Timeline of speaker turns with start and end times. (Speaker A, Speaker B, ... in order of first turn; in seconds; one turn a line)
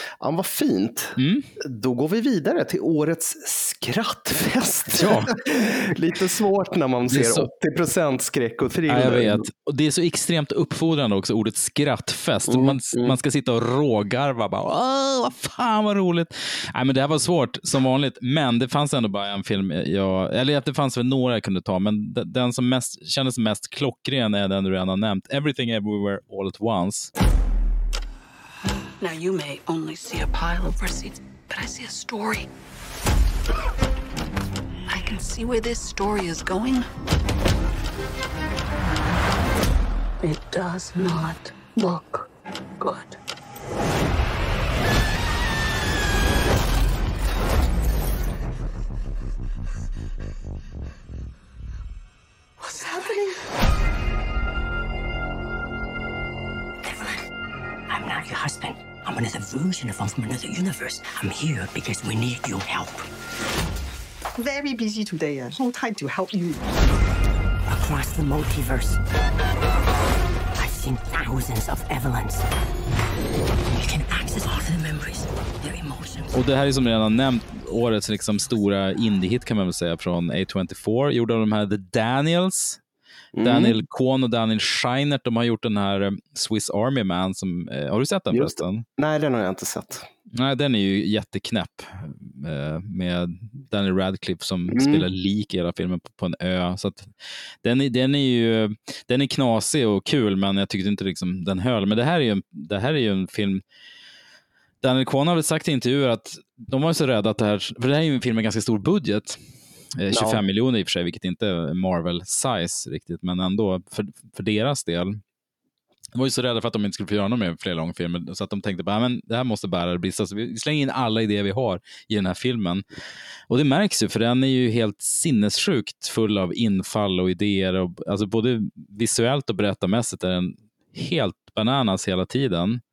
Speaker A: 0.2-9.4
Speaker B: 1.2-1.5
Speaker B: 5.0-5.3
Speaker B: 7.1-7.5
Speaker B: 8.9-27.1
Speaker A: 12.5-13.2
Speaker C: 29.0-32.5
Speaker C: 34.9-36.9
Speaker C: 40.2-42.3
Speaker C: 42.8-43.1
Speaker D: 56.8-57.1
Speaker D: 57.9-63.1
Speaker E: 64.4-66.6
Speaker D: 67.7-69.0
Speaker D: 70.6-72.4
Speaker D: 73.7-76.3
Speaker B: 76.3-82.8
Speaker A: 83.3-83.8
Speaker B: 83.4-88.8
Speaker A: 88.3-90.1
Speaker B: 90.3-97.1
Speaker A: 94.7-95.1
Speaker B: 97.6-103.6
Speaker B: 104.8-109.4
Speaker B: 110.0-115.2
Speaker A: 110.1-110.4
Speaker B: 116.2-122.8
Speaker B: 123.5-132.8